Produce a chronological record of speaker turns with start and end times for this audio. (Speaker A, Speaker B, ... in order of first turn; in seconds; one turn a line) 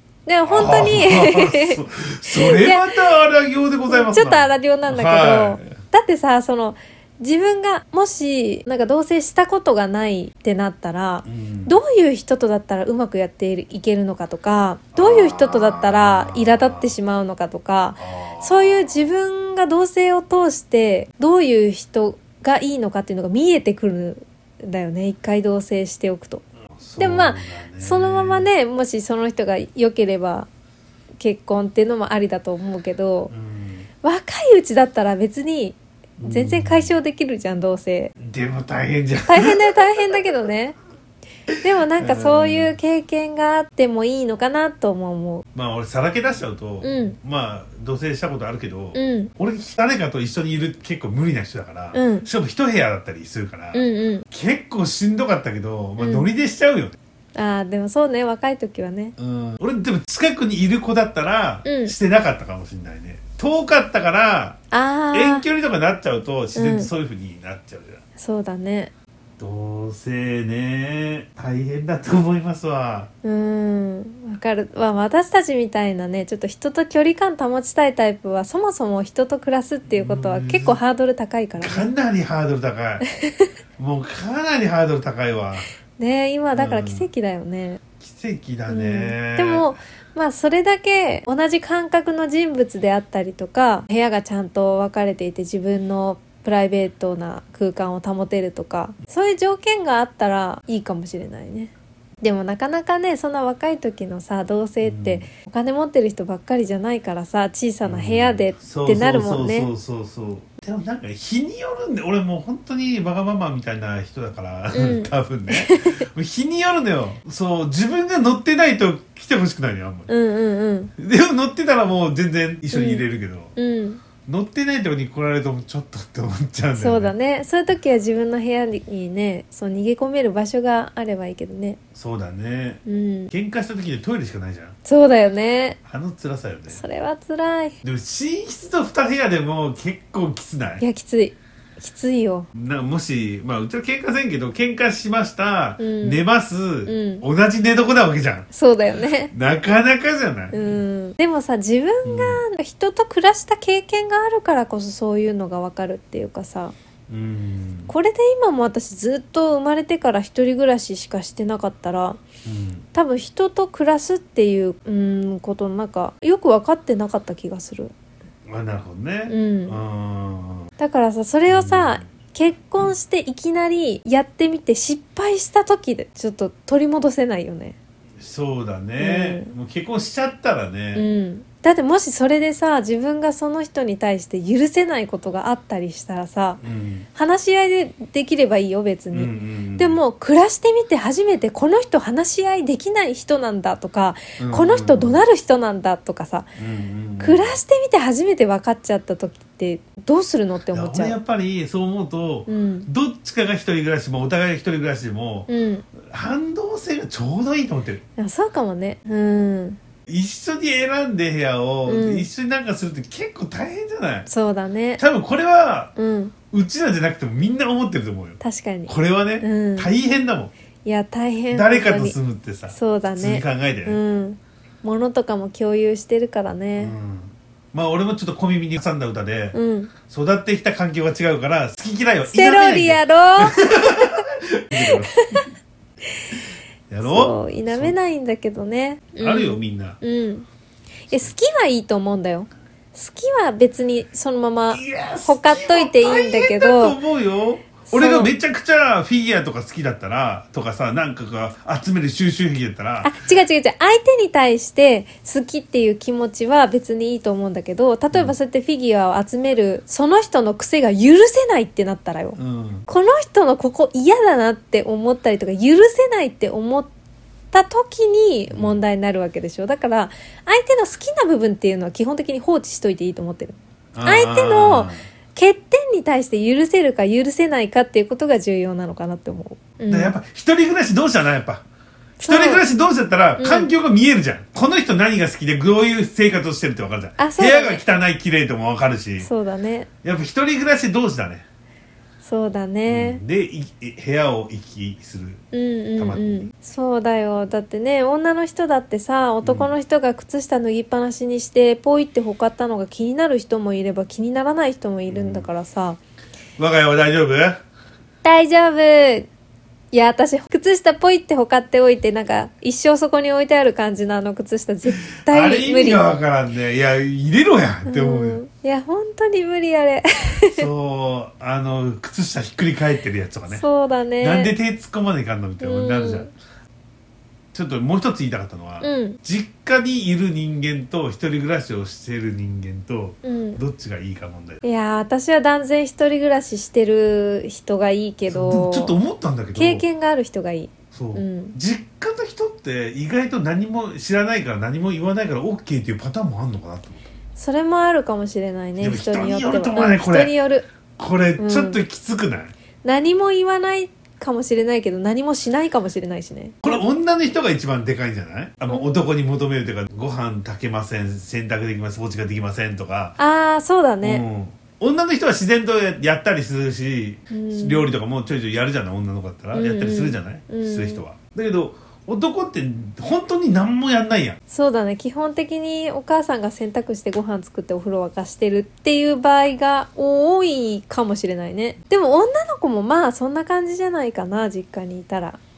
Speaker A: 0.2-3.0
Speaker B: 0.5-5.8
Speaker A: 3.9-26.4
Speaker B: 11.2-11.8
Speaker B: 14.9-16.9
Speaker B: 18.0-19.1
Speaker B: 26.8-28.5
Speaker A: 27.0-30.5
Speaker A: 31.2-33.3
Speaker B: 33.3-33.9
Speaker A: 34.0-38.1
Speaker B: 36.2-36.9
Speaker B: 38.2-40.1
Speaker A: 39.3-40.8
Speaker A: 41.6-45.5
Speaker B: 42.0-42.7
Speaker B: 45.5-57.0
Speaker A: 46.8-47.2
Speaker A: 48.9-49.3
Speaker A: 51.9-52.3
Speaker A: 53.7-54.2
Speaker A: 56.0-56.3
Speaker A: 57.3-59.1
Speaker B: 59.2-64.6
Speaker A: 61.6-61.9
Speaker A: 64.7-65.5
Speaker B: 65.1-68.0
Speaker A: 66.5-66.9
Speaker A: 68.2-68.9
Speaker B: 69.4-73.1
Speaker A: 73.2-81.9
Speaker B: 79.9-80.8
Speaker B: 81.6-83.0
Speaker A: 83.0-83.5
Speaker B: 83.8-85.7
Speaker A: 86.0-87.8
Speaker B: 86.5-87.1
Speaker B: 88.0-89.7
Speaker A: 88.7-109.7
Speaker B: 104.8-105.2
Speaker B: 107.8-120.1
Speaker A: 114.7-116.0
Speaker A: 120.1-120.9
Speaker B: 121.0-123.5
Speaker A: 122.7-123.0
Speaker A: 123.5-124.0
Speaker B: 124.2-127.1
Speaker A: 126.8-131.8
Speaker B: 131.9-134.8
Speaker A: 132.8-133.3
Speaker A: 134.8-135.8
Speaker B: 135.8-136.8
Speaker A: 136.7-137.8
Speaker B: 137.8-140.8
Speaker A: 140.8-142.5
Speaker B: 142.5-148.5
Speaker A: 145.8-146.2
Speaker A: 146.8-147.2
Speaker A: 148.5-149.3
Speaker B: 149.3-150.8
Speaker A: 150.5-156.7
Speaker B: 152.0-152.4
Speaker B: 157.1-157.9
Speaker A: 157.9-162.2
Speaker B: 162.4-162.8
Speaker A: 162.9-167.9
Speaker B: 168.5-170.7
Speaker A: 169.3-169.8
Speaker A: 170.8-177.8
Speaker B: 171.5-172.0
Speaker B: 178.2-181.1
Speaker A: 179.0-179.5
Speaker A: 180.9-186.6
Speaker B: 186.6-187.1
Speaker A: 187.1-196.5
Speaker B: 189.1-190.0
Speaker B: 194.4-195.2
Speaker B: 196.6-197.6
Speaker A: 197.2-201.2
Speaker B: 200.7-205.5
Speaker A: 202.5-202.9
Speaker A: 205.5-205.8
Speaker B: 206.0-208.0
Speaker A: 208.2-209.8
Speaker B: 210.1-214.3
Speaker A: 211.8-212.3
Speaker A: 214.3-215.0
Speaker B: 215.0-215.9
Speaker A: 215.9-216.3
Speaker B: 216.5-220.5
Speaker A: 218.4-219.9
Speaker A: 220.8-222.2
Speaker B: 221.5-224.0
Speaker A: 222.7-226.9
Speaker B: 226.8-229.6
Speaker A: 229.5-229.9
Speaker B: 230.1-235.4
Speaker A: 232.3-234.2
Speaker A: 234.8-235.4
Speaker B: 236.9-237.9
Speaker A: 237.0-240.5
Speaker B: 239.2-240.0
Speaker A: 241.1-247.0
Speaker B: 244.7-253.2
Speaker A: 247.9-248.3
Speaker A: 253.0-266.9
Speaker B: 262.4-262.9
Speaker A: 267.5-280.1
Speaker B: 268.5-268.8
Speaker B: 273.9-275.0
Speaker B: 279.9-281.6
Speaker A: 282.2-282.6
Speaker B: 282.2-289.3
Speaker A: 283.4-283.7
Speaker A: 287.2-287.8
Speaker A: 289.2-289.9
Speaker B: 290.0-291.4
Speaker A: 292.2-293.2
Speaker B: 292.9-295.4
Speaker A: 295.5-306.0
Speaker B: 296.0-296.5
Speaker B: 299.4-299.7
Speaker B: 305.1-305.5
Speaker B: 306.6-307.6
Speaker A: 308.2-309.3
Speaker A: 309.9-316.1
Speaker B: 315.1-318.4
Speaker A: 317.9-320.7
Speaker B: 320.5-323.6
Speaker A: 323.5-324.5
Speaker B: 324.2-326.3
Speaker A: 325.6-326.3
Speaker B: 327.5-334.6
Speaker A: 328.8-329.2
Speaker A: 333.2-333.6
Speaker A: 334.6-339.0
Speaker B: 338.3-339.8
Speaker A: 339.5-341.6
Speaker B: 340.9-347.1
Speaker A: 347.4-350.7
Speaker B: 348.8-350.3
Speaker B: 351.0-352.5
Speaker A: 351.4-351.8
Speaker A: 352.8-356.8
Speaker B: 356.6-363.2
Speaker A: 358.7-359.0
Speaker A: 363.2-364.2
Speaker B: 364.0-374.4
Speaker A: 367.3-367.9
Speaker A: 369.5-371.0
Speaker A: 374.5-385.4